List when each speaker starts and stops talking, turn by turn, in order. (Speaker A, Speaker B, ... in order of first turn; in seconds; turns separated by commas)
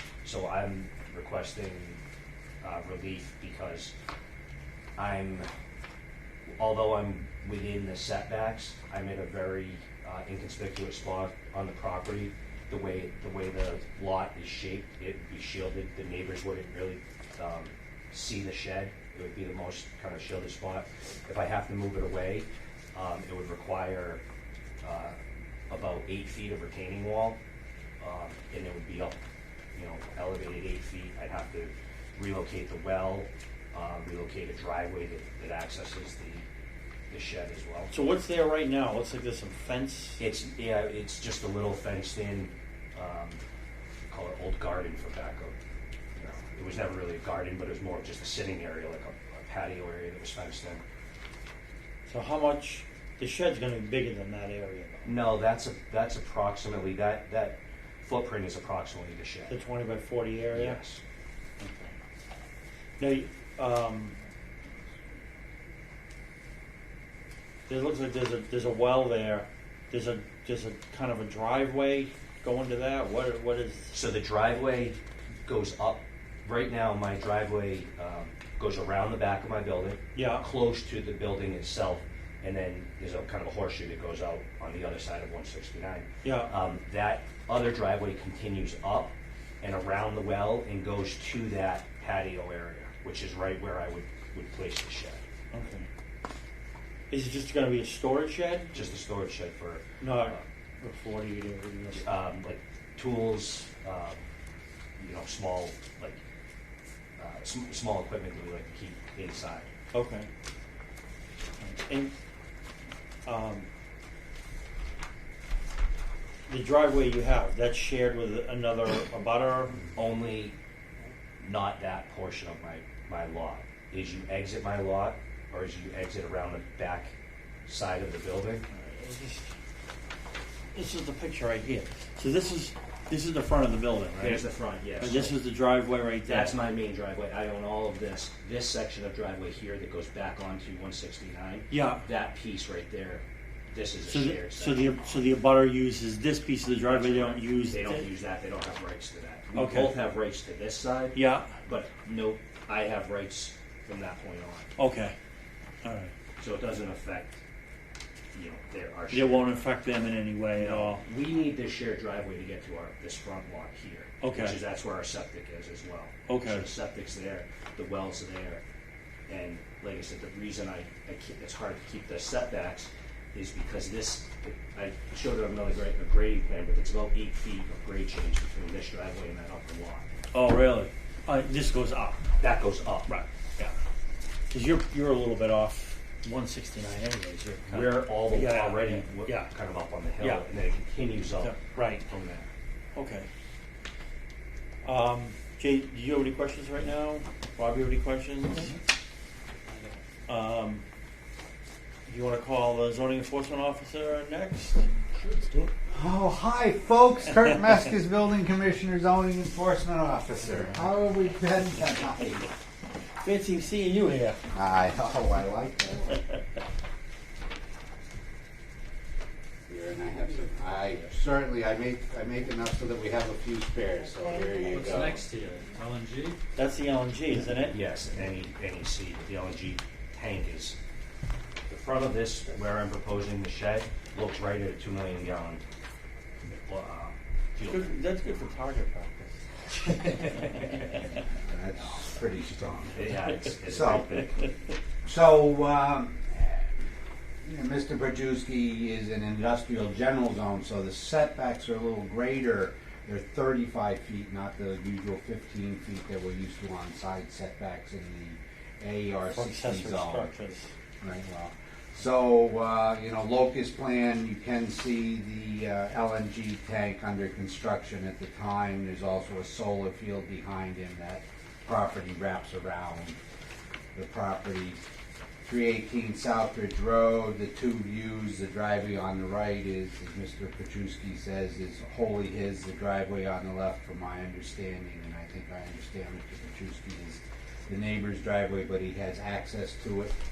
Speaker A: 0.2-2.0, Speaker A: 2.6-3.9, Speaker A: 5.0-5.5, Speaker A: 6.6-24.2, Speaker A: 24.8-25.2, Speaker A: 25.7-27.4, Speaker A: 28.0-29.2, Speaker A: 29.7-36.5, Speaker A: 37.1-38.0, Speaker B: 37.9-40.2, Speaker A: 40.2-43.4, Speaker A: 44.1-45.5, Speaker A: 46.1-50.8, Speaker B: 52.1-55.2, Speaker A: 55.0-59.5, Speaker B: 59.5-60.8, Speaker A: 60.5-61.0, Speaker B: 61.6-61.9, Speaker B: 63.0-64.2, Speaker B: 67.7-73.9, Speaker A: 73.9-95.2, Speaker B: 80.1-80.5, Speaker B: 86.2-86.5, Speaker B: 95.5-95.9, Speaker B: 97.1-98.7, Speaker A: 98.7-100.4, Speaker B: 100.0-102.1, Speaker A: 101.9-104.2, Speaker A: 105.0-106.2, Speaker A: 107.2-109.7, Speaker B: 109.9-110.3, Speaker B: 111.6-112.1, Speaker B: 113.2-113.7, Speaker B: 116.5-119.8, Speaker A: 119.9-120.6, Speaker A: 121.4-127.1, Speaker A: 127.7-128.6, Speaker B: 128.7-129.5, Speaker B: 130.7-134.4, Speaker A: 134.2-135.4, Speaker B: 135.0-136.5, Speaker A: 136.2-145.3, Speaker B: 141.7-142.0, Speaker B: 144.1-148.1, Speaker A: 146.8-154.7, Speaker B: 149.5-149.9, Speaker B: 151.1-151.5, Speaker B: 154.8-155.1, Speaker B: 155.8-156.1, Speaker A: 156.4-157.4, Speaker A: 158.3-159.6, Speaker B: 159.1-161.0, Speaker A: 160.5-168.6, Speaker B: 164.2-164.6, Speaker B: 166.3-166.7, Speaker A: 169.3-180.1, Speaker B: 180.3-182.2, Speaker A: 182.4-183.2, Speaker B: 183.1-183.7, Speaker B: 184.5-189.5, Speaker A: 187.7-192.5, Speaker B: 190.2-190.4, Speaker B: 191.4-192.0, Speaker B: 192.9-193.3, Speaker B: 194.8-198.7, Speaker B: 200.3-200.8, Speaker B: 202.1-204.9, Speaker C: 205.2-205.7, Speaker D: 205.9-212.5, Speaker B: 213.2-214.4, Speaker D: 214.5-216.2, Speaker D: 219.7-225.2, Speaker C: 224.7-226.4, Speaker B: 226.6-227.8, Speaker A: 227.6-230.8, Speaker A: 231.7-235.6, Speaker A: 236.7-237.9, Speaker B: 237.7-241.0, Speaker A: 240.0-240.9, Speaker D: 241.4-243.1, Speaker A: 242.9-244.4, Speaker D: 243.6-244.2, Speaker D: 245.0-246.7, Speaker D: 247.4-260.3, Speaker B: 259.3-260.7, Speaker D: 261.0-273.2, Speaker D: 273.9-274.8, Speaker D: 275.4-290.1